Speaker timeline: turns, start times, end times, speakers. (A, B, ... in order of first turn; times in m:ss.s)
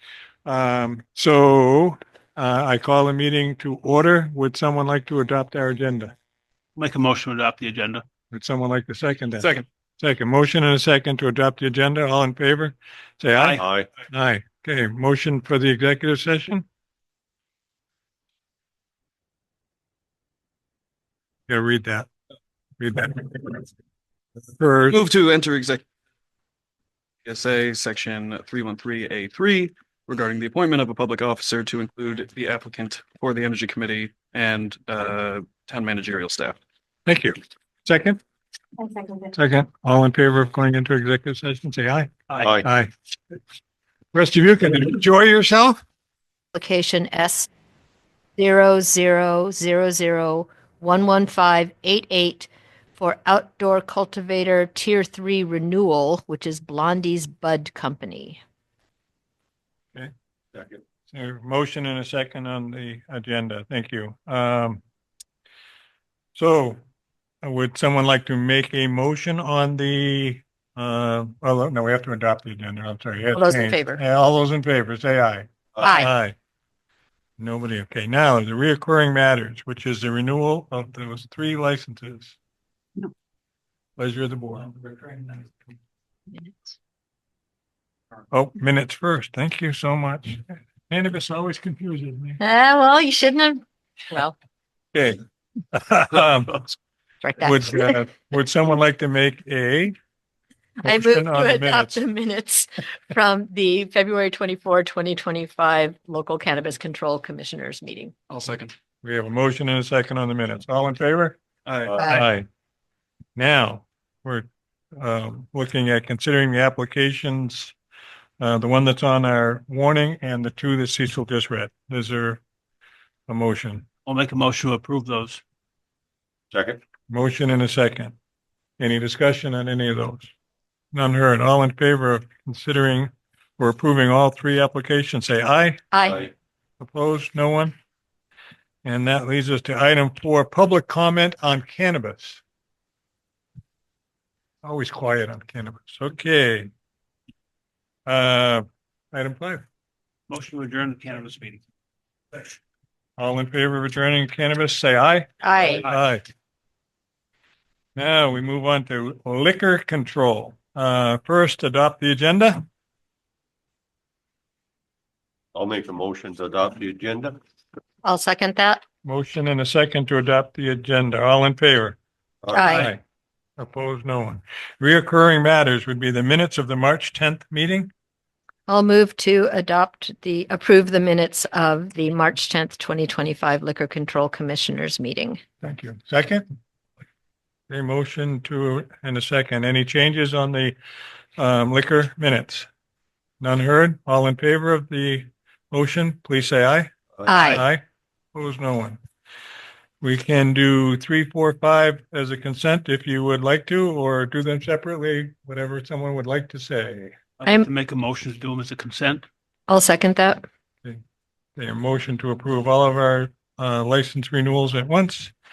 0:00.4-0:06.1 A
0:06.8-0:08.0 B
0:08.3-0:16.6 A
0:09.4-0:09.6 C
0:13.4-0:13.6 B
0:13.6-0:13.9 D
0:21.5-0:22.1 A
0:22.8-0:23.6 A
0:24.6-0:25.0 A
0:24.9-0:25.8 C
0:27.2-0:36.6 C
0:37.0-0:38.2 A
0:39.3-0:42.9 A
0:44.1-0:45.8 A
0:46.5-0:47.5 E
0:48.4-0:58.4 E
1:00.5-1:00.8 D
1:01.1-1:04.8 A
1:06.3-1:06.8 A
1:07.4-1:16.3 A
1:13.3-1:14.0 E
1:15.8-1:16.1 E
1:17.4-1:22.4 A
1:24.0-1:25.5 A
1:26.3-1:26.7 E
1:28.3-1:32.4 A
1:32.4-1:34.4 E
1:34.9-1:35.2 A
1:35.7-1:36.8 A
1:37.2-1:38.0 E
1:37.4-1:40.0 A
1:40.8-1:48.1 E
1:40.8-1:42.0 A
1:48.3-1:48.7 C
1:49.0-1:51.4 A
1:51.6-1:52.0 C
1:52.0-1:52.2 E
1:52.0-1:52.4 A
1:53.4-1:57.7 A
1:58.4-2:02.4 A
2:03.3-2:03.8 A
2:04.0-2:05.4 B
2:06.5-2:06.8 D
2:07.1-2:08.1 A
2:08.8-2:10.3 A
2:10.9-2:15.8 A
2:15.9-2:16.3 E
2:16.8-2:17.7 A
2:18.8-2:22.4 A
2:24.6-2:26.7 A
2:28.0-2:29.6 A
2:30.3-2:31.6 B
2:33.2-2:36.2 A
2:35.4-2:35.9 E
2:38.0-2:42.6 A
2:45.5-2:47.4 D
2:48.0-2:48.8 E
2:49.0-2:52.0 A
2:52.4-2:52.7 D
2:52.5-2:52.9 E
2:52.6-2:53.0 A
2:53.6-2:57.9 A
2:58.7-3:05.4 E
3:05.6-3:06.4 A
3:07.7-3:10.8 A
3:11.4-3:12.7 A
3:13.4-3:17.8 A
3:17.3-3:17.6 E
3:18.3-3:19.0 A
3:20.0-3:27.1 A
3:27.4-3:29.2 B
3:29.7-3:30.4 E
3:31.6-3:35.3 A